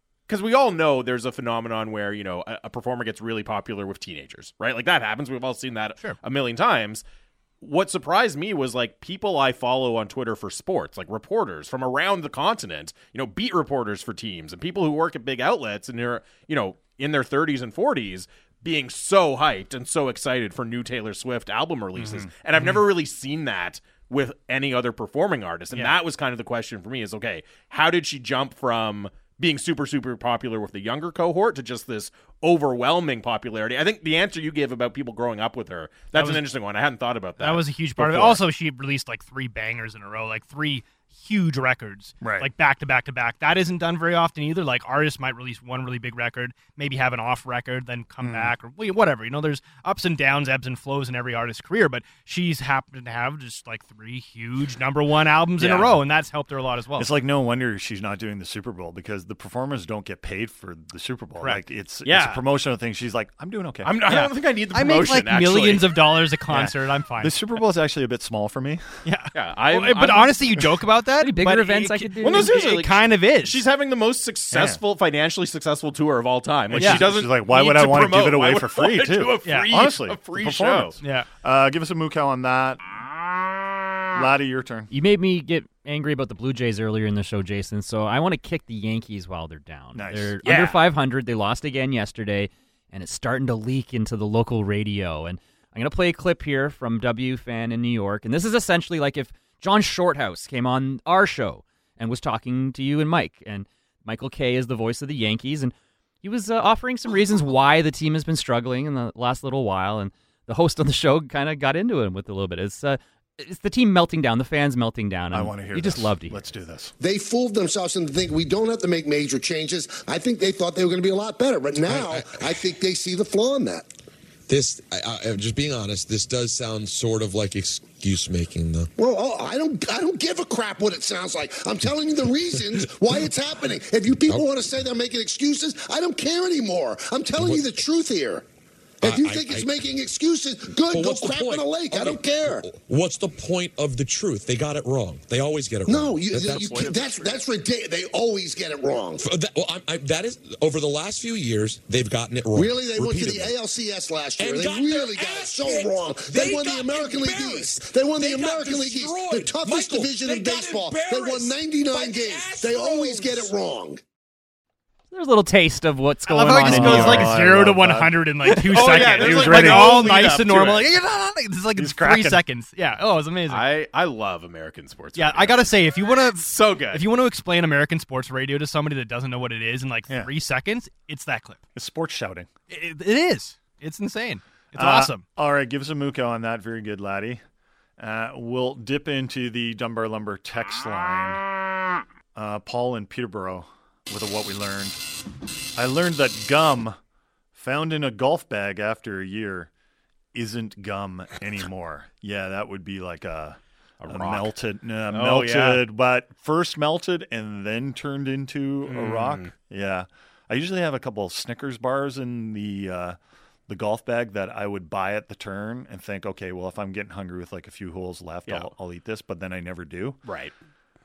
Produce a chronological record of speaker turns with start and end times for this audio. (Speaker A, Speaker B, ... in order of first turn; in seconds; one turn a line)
Speaker A: 0.3-7.0
Speaker A: 7.6-38.4
Speaker B: 22.0-22.3
Speaker C: 36.1-36.4
Speaker C: 37.4-57.1
Speaker B: 42.2-42.5
Speaker B: 48.2-48.5
Speaker A: 55.6-56.0
Speaker B: 57.0-64.0
Speaker A: 62.0-62.4
Speaker A: 63.8-66.0
Speaker C: 64.0-67.4
Speaker B: 66.5-69.0
Speaker C: 69.0-73.6
Speaker A: 69.3-70.5
Speaker D: 71.2-72.5
Speaker A: 72.2-81.0
Speaker B: 74.5-74.8
Speaker B: 76.7-82.8
Speaker C: 76.8-77.1
Speaker C: 79.4-79.7
Speaker C: 81.0-81.3
Speaker B: 84.1-84.9
Speaker D: 84.9-116.4
Speaker B: 89.9-90.4
Speaker A: 90.4-90.8
Speaker B: 115.3-116.9
Speaker E: 117.0-123.9
Speaker F: 121.8-122.6
Speaker F: 124.5-128.9
Speaker E: 129.0-138.4
Speaker F: 137.4-137.8
Speaker E: 139.0-142.7
Speaker F: 139.0-139.8
Speaker F: 140.9-147.4
Speaker E: 145.8-149.2
Speaker F: 149.2-153.5
Speaker E: 152.5-164.0
Speaker F: 154.4-163.5
Speaker D: 165.1-167.3
Speaker C: 166.3-173.6
Speaker B: 166.6-170.0
Speaker A: 168.7-170.9
Speaker B: 171.7-172.4
Speaker A: 173.5-175.8
Speaker C: 175.2-181.6
Speaker A: 176.3-177.1
Speaker B: 181.7-182.5
Speaker C: 182.7-185.2
Speaker B: 184.7-187.4
Speaker B: 188.0-191.4
Speaker B: 192.3-195.0
Speaker B: 195.7-197.0
Speaker B: 197.5-199.7
Speaker B: 200.3-220.2
Speaker A: 204.0-204.5
Speaker A: 205.1-205.8
Speaker A: 208.9-209.5
Speaker A: 220.2-220.5